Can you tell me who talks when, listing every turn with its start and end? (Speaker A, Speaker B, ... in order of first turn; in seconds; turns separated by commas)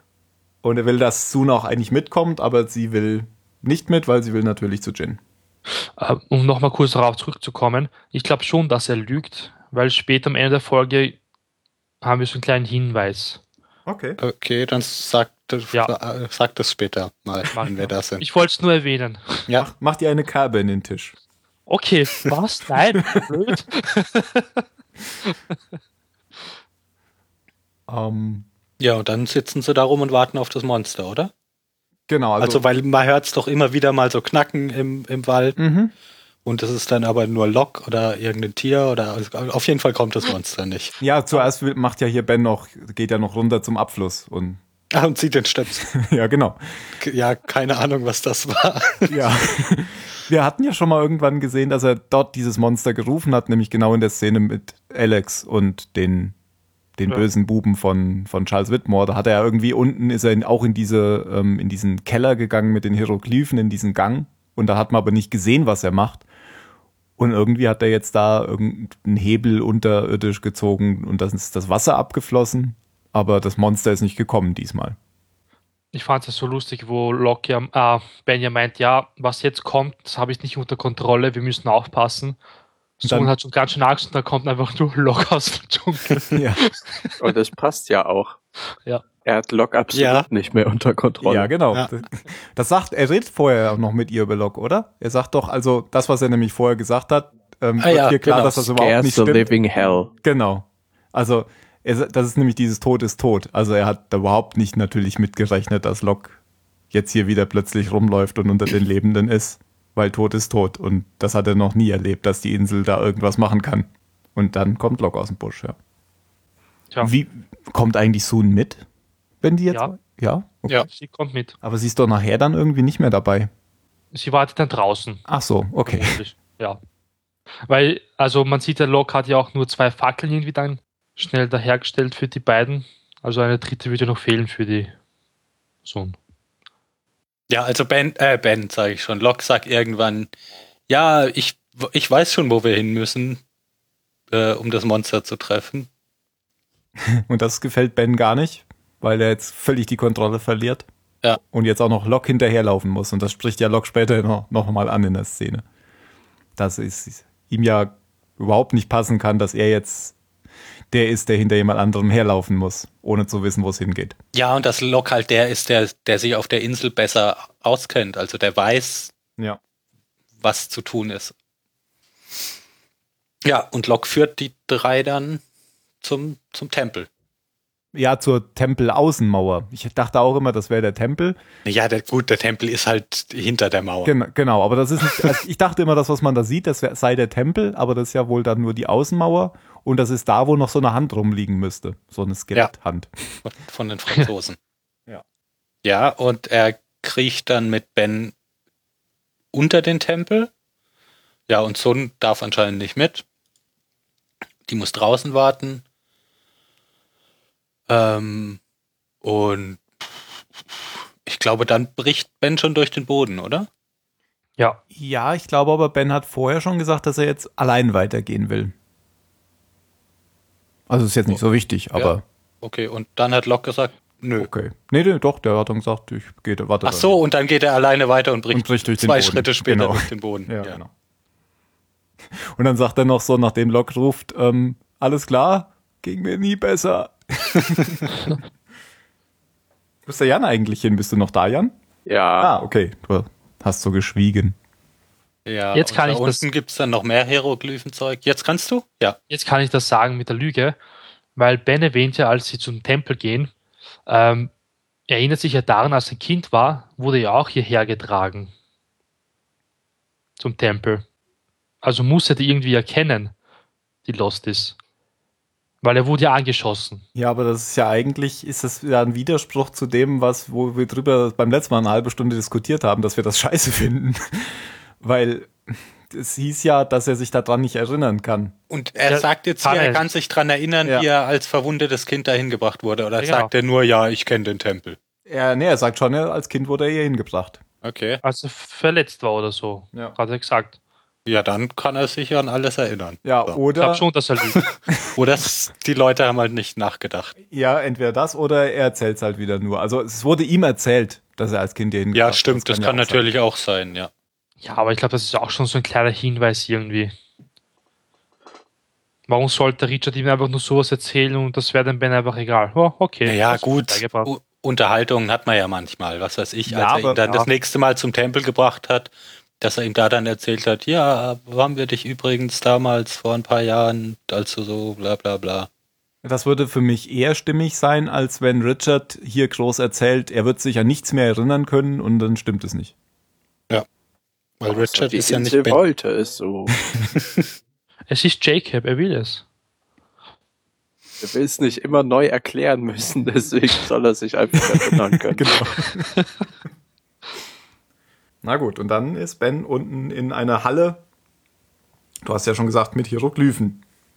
Speaker A: 0.6-5.2, Speaker B: 6.0-11.2, Speaker B: 12.0-13.4, Speaker A: 13.9-14.2, Speaker C: 14.2-18.3, Speaker B: 17.5-19.5, Speaker A: 19.6-21.1, Speaker B: 21.7-24.6, Speaker B: 25.3-25.6, Speaker A: 27.9-28.5, Speaker C: 28.8-31.3, Speaker A: 32.1-32.6, Speaker C: 32.4-35.6, Speaker A: 35.6-35.9, Speaker C: 36.5-41.5, Speaker A: 41.0-44.6, Speaker C: 44.9-45.9, Speaker A: 45.9-46.6, Speaker C: 47.0-49.2, Speaker A: 49.1-56.4, Speaker A: 57.0-66.2, Speaker A: 67.2-75.0, Speaker B: 75.9-82.4, Speaker B: 83.0-87.2, Speaker A: 83.0-83.3, Speaker A: 86.3-86.6, Speaker D: 87.2-88.4, Speaker D: 89.2-91.5, Speaker C: 89.9-90.3, Speaker A: 91.2-99.5, Speaker C: 97.8-98.7, Speaker D: 98.8-100.1, Speaker A: 100.2-106.4, Speaker A: 106.9-115.8, Speaker A: 117.0-118.8, Speaker A: 119.4-120.8, Speaker B: 120.9-121.5, Speaker A: 121.6-123.5, Speaker B: 124.1-125.2, Speaker A: 125.3-126.2, Speaker B: 125.9-126.8, Speaker B: 127.7-134.9, Speaker B: 135.8-136.2, Speaker C: 137.5-140.3, Speaker C: 140.9-143.4, Speaker C: 144.3-145.9, Speaker A: 147.2-150.9, Speaker A: 151.4-155.6, Speaker A: 156.6-160.2, Speaker A: 160.9-164.2, Speaker C: 164.3-169.1, Speaker C: 170.4-171.3, Speaker C: 173.4-175.4, Speaker C: 176.0-177.1, Speaker A: 177.9-181.4, Speaker C: 181.6-184.1, Speaker A: 184.1-193.1, Speaker C: 193.4-194.6, Speaker C: 195.8-198.3, Speaker C: 199.5-200.5, Speaker C: 201.5-203.2, Speaker C: 204.7-205.8, Speaker C: 207.9-208.6, Speaker C: 209.2-210.1, Speaker C: 210.7-213.7, Speaker A: 214.9-218.7, Speaker A: 220.9-222.2, Speaker C: 221.9-224.5, Speaker A: 224.4-227.2, Speaker C: 226.8-230.8, Speaker A: 228.5-230.9, Speaker A: 232.5-238.1, Speaker A: 240.1-241.8, Speaker D: 242.1-242.5, Speaker A: 242.4-244.6, Speaker C: 245.4-249.2, Speaker B: 245.8-246.4, Speaker B: 249.3-250.8, Speaker B: 251.4-253.5, Speaker B: 254.1-254.5, Speaker B: 255.1-258.5, Speaker B: 260.4-261.1, Speaker B: 261.8-263.3, Speaker B: 264.1-264.8, Speaker B: 265.8-267.0, Speaker A: 267.1-278.5, Speaker C: 278.7-285.0, Speaker B: 279.1-280.0, Speaker B: 283.2-283.5, Speaker A: 285.3-287.6, Speaker C: 287.8-288.2, Speaker B: 288.2-290.8, Speaker C: 291.2-293.6, Speaker A: 293.2-294.0, Speaker B: 293.8-294.6, Speaker C: 295.1-297.4, Speaker A: 297.5-303.3, Speaker C: 302.1-304.1, Speaker B: 304.6-307.1, Speaker B: 309.3-314.3, Speaker C: 313.2-325.7, Speaker A: 316.7-317.2, Speaker A: 326.2-332.9, Speaker C: 334.6-335.8, Speaker D: 334.7-336.8, Speaker C: 337.1-337.5, Speaker B: 338.1-339.4, Speaker D: 341.2-345.5, Speaker A: 345.3-346.1, Speaker A: 348.4-351.0, Speaker A: 352.2-353.8